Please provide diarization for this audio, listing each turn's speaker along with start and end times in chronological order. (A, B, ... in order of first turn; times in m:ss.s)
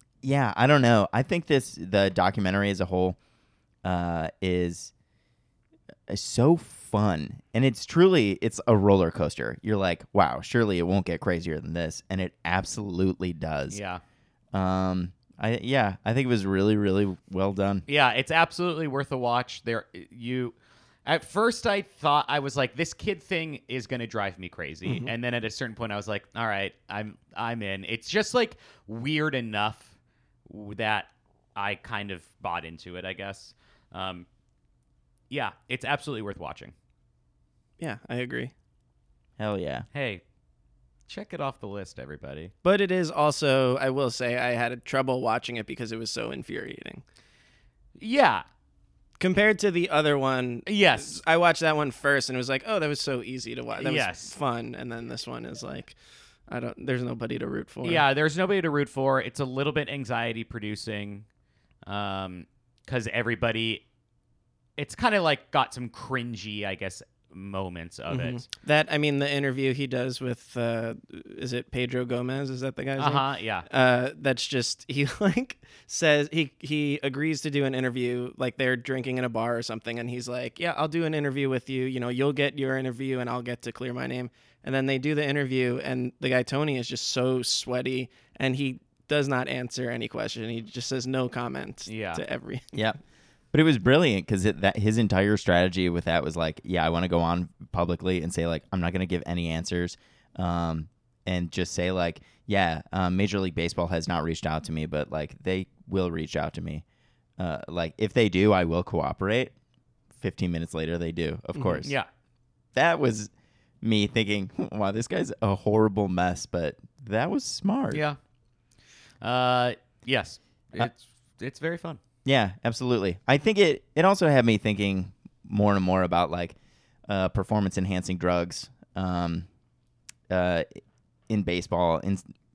0:00.2-0:03.2 A
0:03.8-0:04.9 A
0:06.1-0:13.8 A
0:13.7-0:14.0 B
0:14.5-0:17.9 A
0:17.9-0:20.6 B
0:21.1-0:29.9 B
0:24.8-0:25.1 C
0:30.5-0:34.3 B
0:35.3-0:36.7 B
0:37.8-0:38.5 C
0:39.4-0:39.9 A
0:39.9-0:40.2 B
0:41.1-0:42.5 B
0:42.6-0:47.0 C
0:48.0-0:48.4 B
0:49.2-0:56.0 C
0:50.7-0:51.2 B
0:53.8-0:54.3 B
0:56.5-0:58.0 C
0:57.8-1:01.3 B
1:01.8-1:03.8 B
1:04.8-1:08.5 B
1:08.1-1:32.8 C
1:13.0-1:13.7 B
1:31.9-1:32.2 B
1:33.5-1:46.8 A
1:47.4-1:49.6 A
1:50.2-1:51.9 A
1:51.8-1:52.1 B
1:52.8-1:53.3 A
1:53.8-1:58.0 A
1:57.9-1:58.2 B
1:59.2-2:02.0 B
2:02.2-2:06.6 A
2:07.1-2:09.5 A
2:10.3-2:10.7 A
2:11.3-2:12.2 A